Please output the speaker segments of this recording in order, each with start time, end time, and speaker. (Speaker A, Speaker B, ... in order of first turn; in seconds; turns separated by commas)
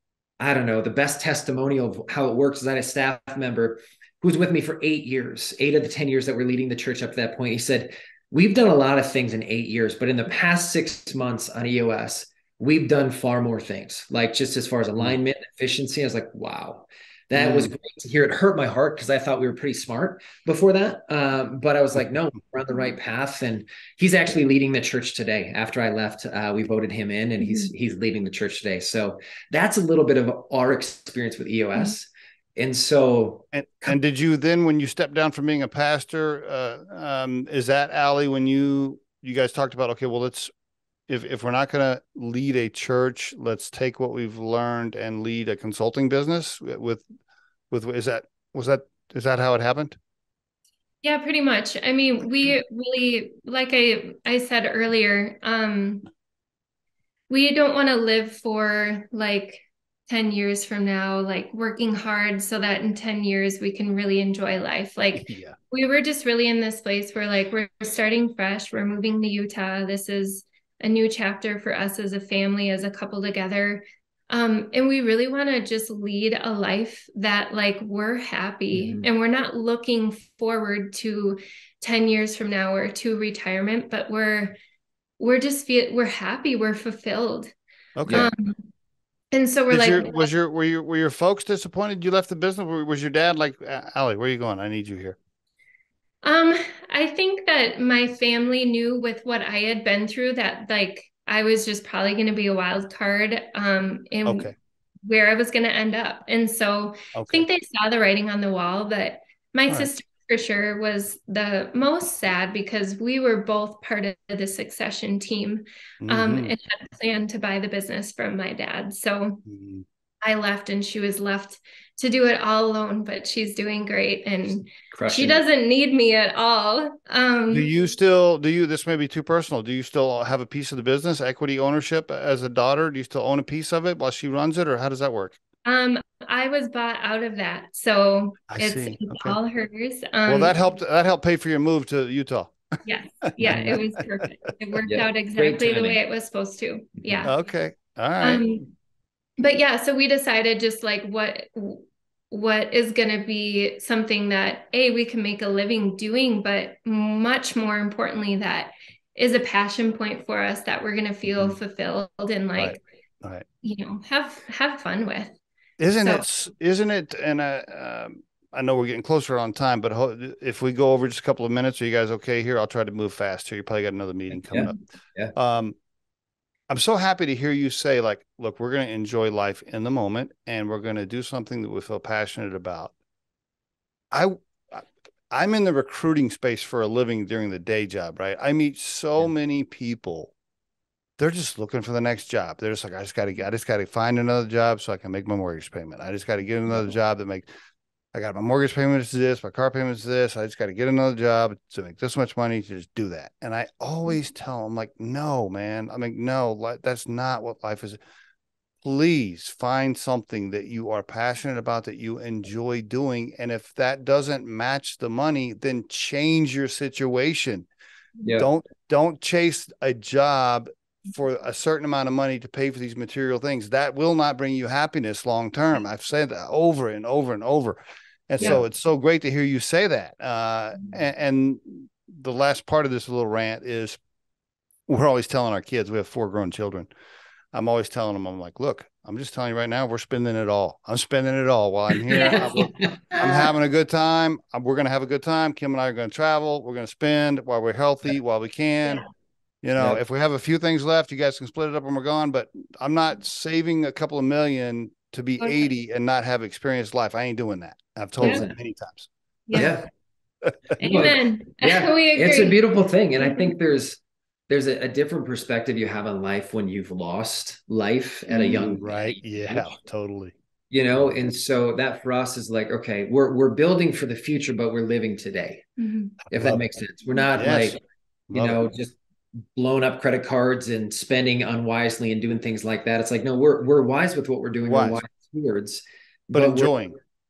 Speaker A: 0.4-33.5, Speaker B: 17.4-17.7, Speaker C: 27.4-27.7, Speaker B: 33.5-40.5, Speaker B: 41.1-47.0, Speaker B: 47.7-50.0, Speaker C: 51.0-56.1, Speaker C: 57.3-84.5, Speaker B: 65.3-65.5, Speaker A: 78.7-79.1, Speaker C: 85.2-87.5, Speaker B: 88.0-88.3, Speaker C: 88.1-88.6, Speaker C: 89.3-90.2, Speaker B: 89.7-95.2, Speaker C: 96.2-104.5, Speaker B: 104.2-104.5, Speaker C: 105.0-119.4, Speaker B: 107.1-107.5, Speaker B: 116.0-116.5, Speaker B: 119.5-119.8, Speaker C: 120.2-127.7, Speaker A: 124.9-125.4, Speaker B: 127.5-135.4, Speaker C: 135.6-140.6, Speaker B: 138.5-139.4, Speaker B: 140.3-142.5, Speaker C: 142.8-147.3, Speaker B: 143.3-144.0, Speaker A: 144.8-146.0, Speaker A: 147.0-147.3, Speaker B: 147.2-148.6, Speaker C: 148.2-148.6, Speaker C: 149.4-162.8, Speaker B: 162.6-163.4, Speaker C: 163.6-165.3, Speaker B: 165.8-174.7, Speaker C: 166.0-166.2, Speaker A: 174.5-175.3, Speaker B: 175.3-175.8, Speaker B: 176.7-182.9, Speaker B: 184.1-190.3, Speaker B: 191.2-197.5, Speaker B: 198.1-208.0, Speaker B: 208.8-217.7, Speaker B: 218.3-234.0, Speaker B: 234.9-236.9, Speaker B: 237.5-249.0, Speaker C: 242.1-243.5, Speaker A: 242.2-242.9, Speaker B: 249.6-259.1, Speaker C: 255.4-255.7, Speaker A: 258.2-258.6, Speaker C: 259.5-259.7, Speaker A: 259.5-259.9, Speaker B: 260.4-260.7, Speaker C: 260.8-262.6, Speaker A: 260.8-269.7, Speaker C: 263.2-263.5, Speaker C: 268.3-268.7, Speaker B: 268.4-270.3, Speaker A: 270.7-275.6, Speaker C: 275.8-276.2, Speaker A: 276.3-277.8, Speaker B: 276.3-276.6, Speaker B: 277.3-277.8, Speaker B: 278.3-278.6, Speaker A: 278.3-279.0, Speaker A: 279.5-286.9, Speaker B: 284.7-285.0, Speaker B: 286.3-287.0